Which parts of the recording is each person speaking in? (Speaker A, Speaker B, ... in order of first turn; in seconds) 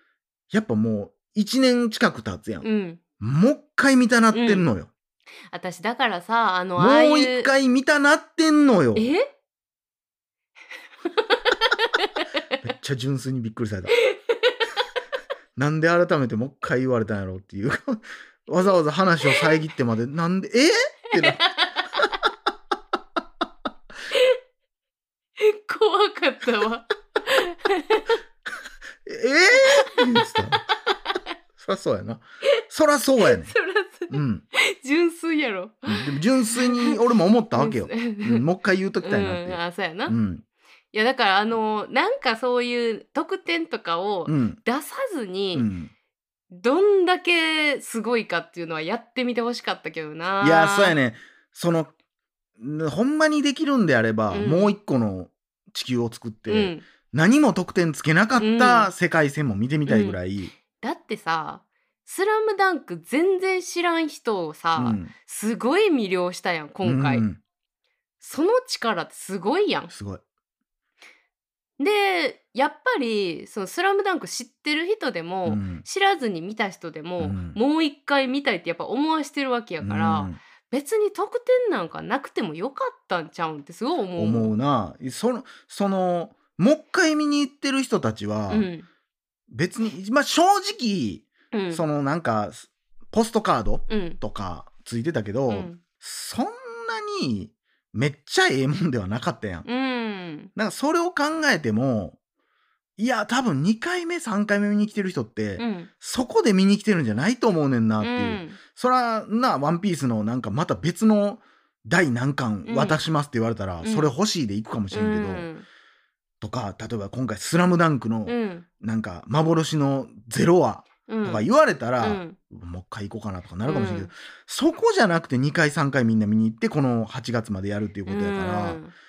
Speaker A: 0.5-2.7, 3.2-4.9, 6.8-9.1, 12.6-13.9, 15.6-21.4, 29.0-30.7, 31.6-33.5, 34.1-34.4, 35.9-40.4, 44.3-44.6, 45.5-45.9, 50.4-51.9, 52.6-60.5, 64.8-65.1, 66.8-67.4, 69.9-70.2, 75.4-75.8, 77.2-77.6, 79.8-80.4, 84.2-88.7, 89.5-99.7, 100.5-102.2, 103.0-115.5, 116.4-128.8
Speaker B: 2.6-3.0, 4.3-4.6, 5.5-7.5, 8.9-9.2, 11.3-12.1, 13.9-14.5, 21.1-22.0, 24.1-24.4, 25.4-28.2, 29.6-30.3, 30.9-31.2, 33.2-37.0, 37.5-38.4, 39.0-40.1, 40.9-45.7, 46.5-51.0, 54.3-54.8, 56.5-56.8, 58.4-58.9, 59.9-60.2, 60.7-67.2, 68.2-69.9, 71.8-84.5, 88.5-88.9, 91.5-91.8, 93.9-94.2, 95.5-95.8, 99.7-100.5, 105.6-105.9, 108.0-108.6, 112.7-113.0, 113.8-114.1, 114.9-115.7, 118.3-118.7, 121.1-121.5, 122.0-122.4, 123.6-124.1, 128.1-128.9